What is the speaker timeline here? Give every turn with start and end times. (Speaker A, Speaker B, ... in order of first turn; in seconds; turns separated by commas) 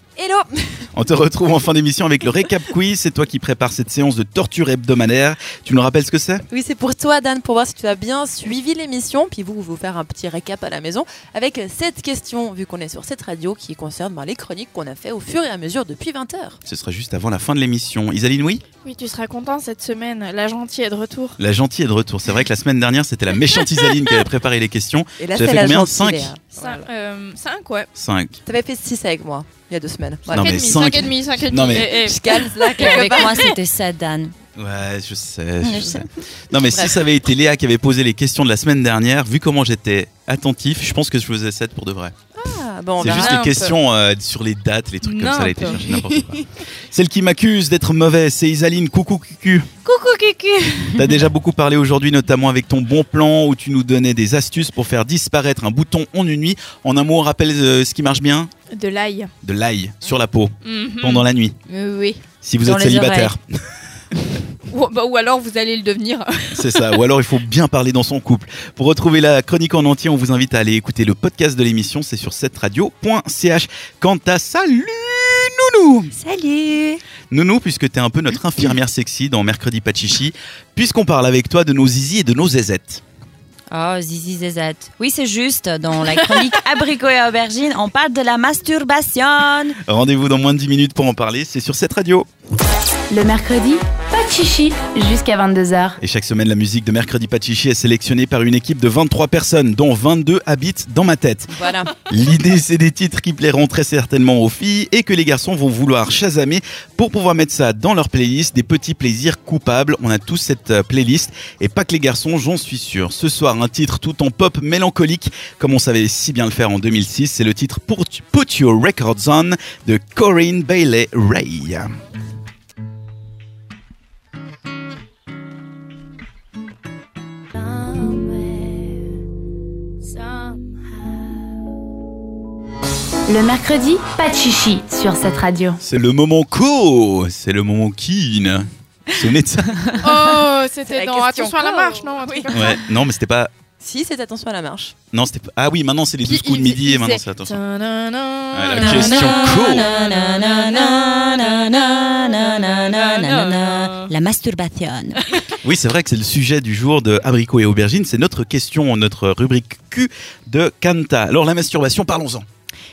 Speaker A: 0.2-0.9, Speaker B: 0.9-6.4, Speaker A: 6.5-16.6, Speaker B: 16.7-18.6, Speaker C: 18.8-21.4, Speaker B: 21.4-26.3, Speaker C: 23.5-24.2, Speaker A: 25.2-26.9, Speaker C: 26.6-27.9, Speaker B: 27.9-28.4, Speaker A: 28.4-30.6, Speaker B: 30.3-32.0, Speaker C: 30.3-33.5, Speaker A: 31.7-33.5, Speaker D: 32.8-34.3, Speaker B: 34.6-42.1, Speaker D: 35.6-36.0, Speaker A: 36.5-37.0, Speaker A: 42.3-43.7, Speaker B: 43.0-49.7, Speaker C: 43.0-43.7, Speaker C: 45.0-46.5, Speaker C: 49.9-51.0, Speaker B: 50.9-58.5, Speaker C: 58.7-59.3, Speaker B: 59.4-61.5, Speaker C: 60.6-62.2, Speaker B: 62.4-63.4, Speaker D: 62.6-63.3, Speaker C: 64.7-67.0, Speaker B: 66.5-76.1, Speaker D: 76.1-77.0, Speaker B: 77.3-83.0, Speaker D: 83.7-89.8, Speaker B: 89.8-92.3, Speaker E: 93.1-96.0, Speaker B: 96.0-101.5, Speaker A: 101.5-102.0, Speaker B: 102.1-121.9, Speaker C: 128.0-128.7, Speaker E: 133.3-135.8, Speaker B: 135.8-140.0, Speaker C: 140.0-142.8, Speaker A: 140.8-142.8, Speaker B: 142.5-143.5, Speaker A: 143.8-144.9, Speaker B: 145.1-147.6, Speaker C: 146.2-154.1, Speaker B: 148.5-149.9, Speaker D: 148.8-155.4, Speaker B: 155.6-162.4